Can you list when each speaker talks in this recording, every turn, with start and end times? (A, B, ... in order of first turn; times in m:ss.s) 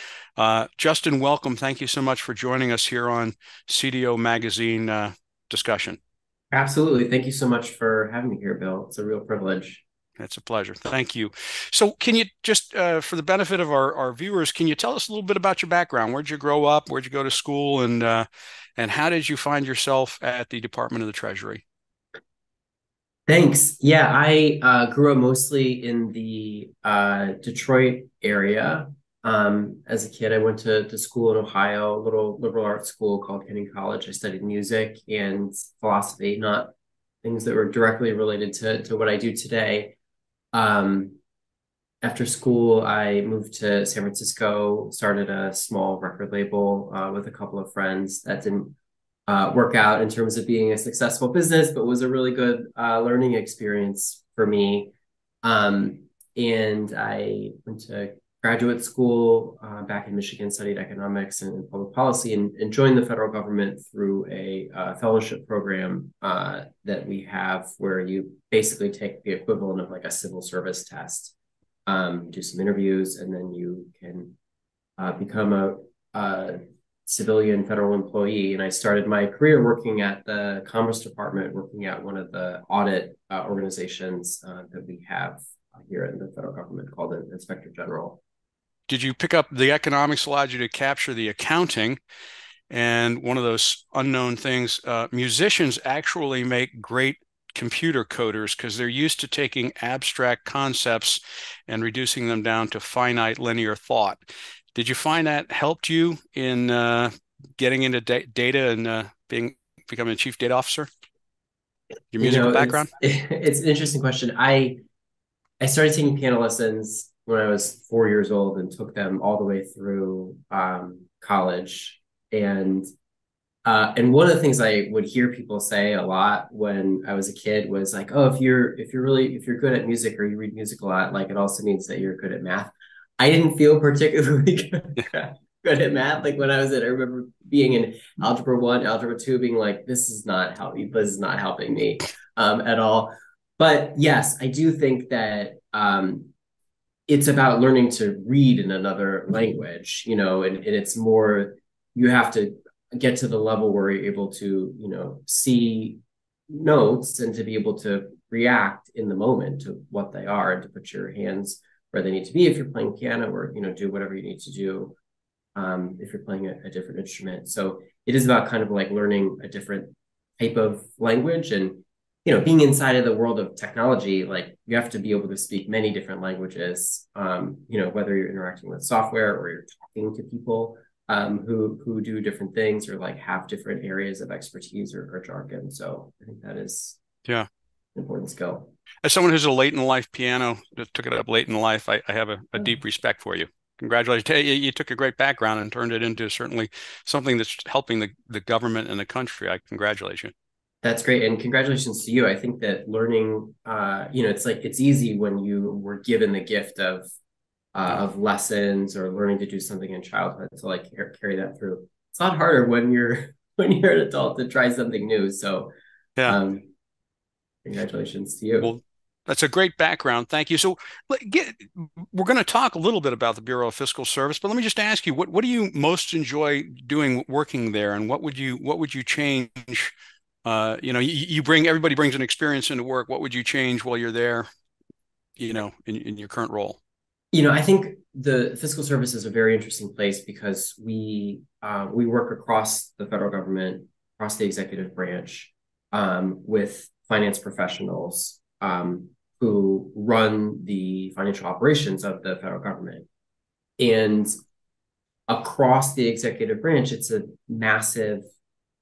0:00.4-0:06.0 A
0:06.5-0:09.8 B
0:10.2-0:21.6 A
0:23.3-0:40.0 B
0:40.5-0:41.2 B
0:42.0-0:48.7 B
0:49.3-1:11.3 B
1:11.8-1:14.4 B
1:15.0-1:28.2 B
1:28.9-1:32.0 A
1:32.7-1:44.2 A
1:44.7-1:50.9 A
1:52.1-1:52.9 A
1:52.2-1:54.8 B
1:55.6-2:02.9 B
2:03.6-2:26.3 B
2:27.1-2:45.0 B
2:45.6-3:07.0 B
3:07.9-3:08.7 B
3:09.0-3:20.3 A
3:20.8-3:27.1 B
3:27.7-3:35.7 B
3:36.2-3:36.7 B
3:37.6-3:38.7 B
3:38.6-3:49.9 A
3:50.4-3:54.5 A
3:55.4-3:56.8 A
3:57.3-4:13.1 B
4:13.8-4:14.3 B
4:15.3-4:18.3 B